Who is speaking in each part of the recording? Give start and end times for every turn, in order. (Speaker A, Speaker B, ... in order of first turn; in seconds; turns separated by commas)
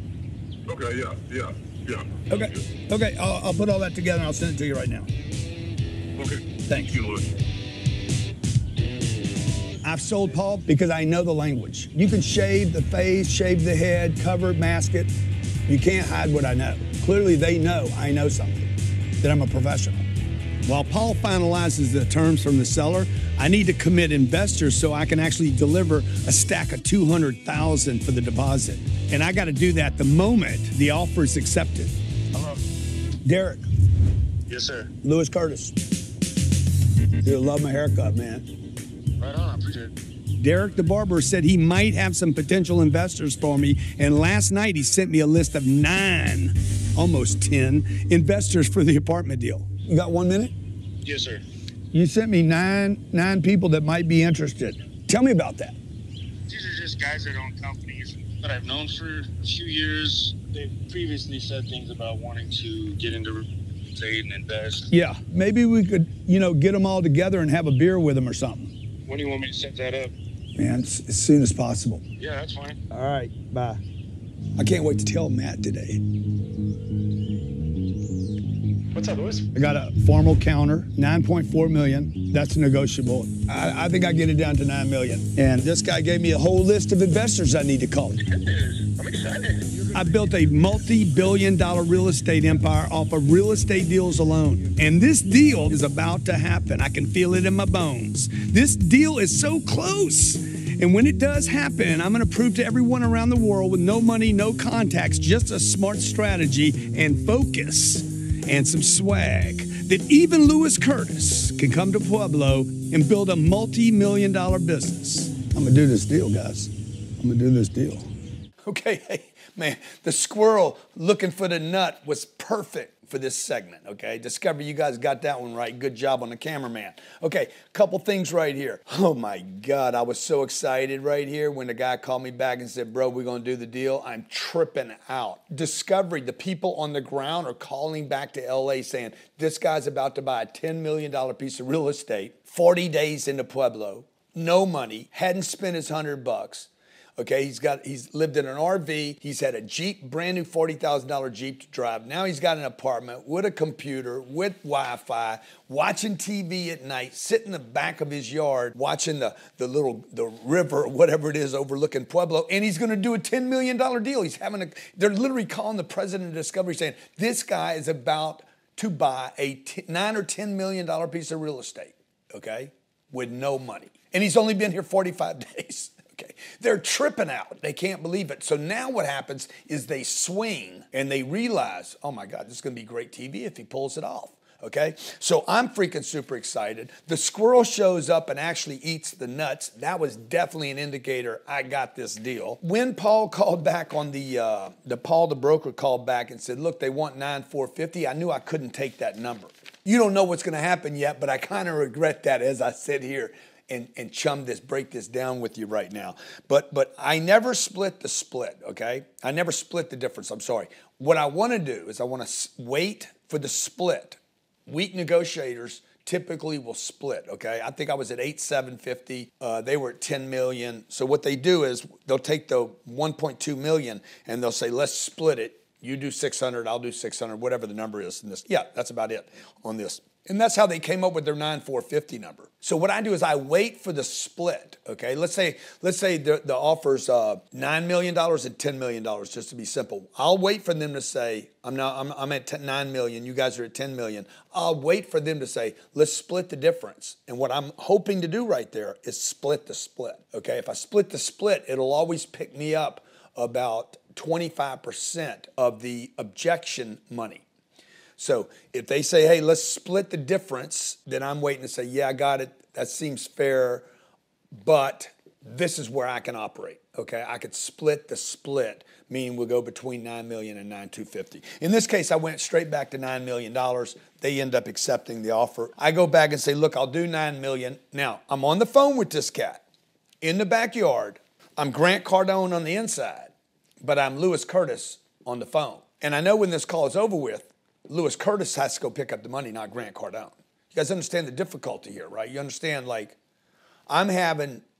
Speaker A: 0.7-2.7, Speaker B: 2.3-5.1, Speaker A: 6.2-7.2, Speaker B: 6.7-7.0, Speaker B: 9.8-15.1, Speaker B: 15.7-20.1, Speaker B: 20.6-31.9, Speaker B: 33.2-33.6, Speaker C: 34.5-34.9, Speaker B: 35.0-35.7, Speaker B: 37.2-38.5, Speaker C: 39.2-39.9, Speaker B: 40.4-50.5, Speaker C: 51.0-51.4, Speaker B: 51.9-55.8, Speaker C: 56.5-64.9, Speaker B: 64.9-68.7, Speaker C: 69.1-70.1, Speaker B: 70.5-72.0, Speaker C: 72.2-72.8, Speaker B: 72.9-73.8, Speaker B: 74.6-76.0, Speaker C: 78.9-79.5, Speaker B: 79.5-88.2, Speaker C: 88.3-89.6, Speaker B: 89.9-118.1, Speaker B: 118.6-257.4, Speaker B: 258.2-263.9, Speaker B: 264.5-279.6, Speaker B: 280.2-293.1, Speaker B: 293.9-294.6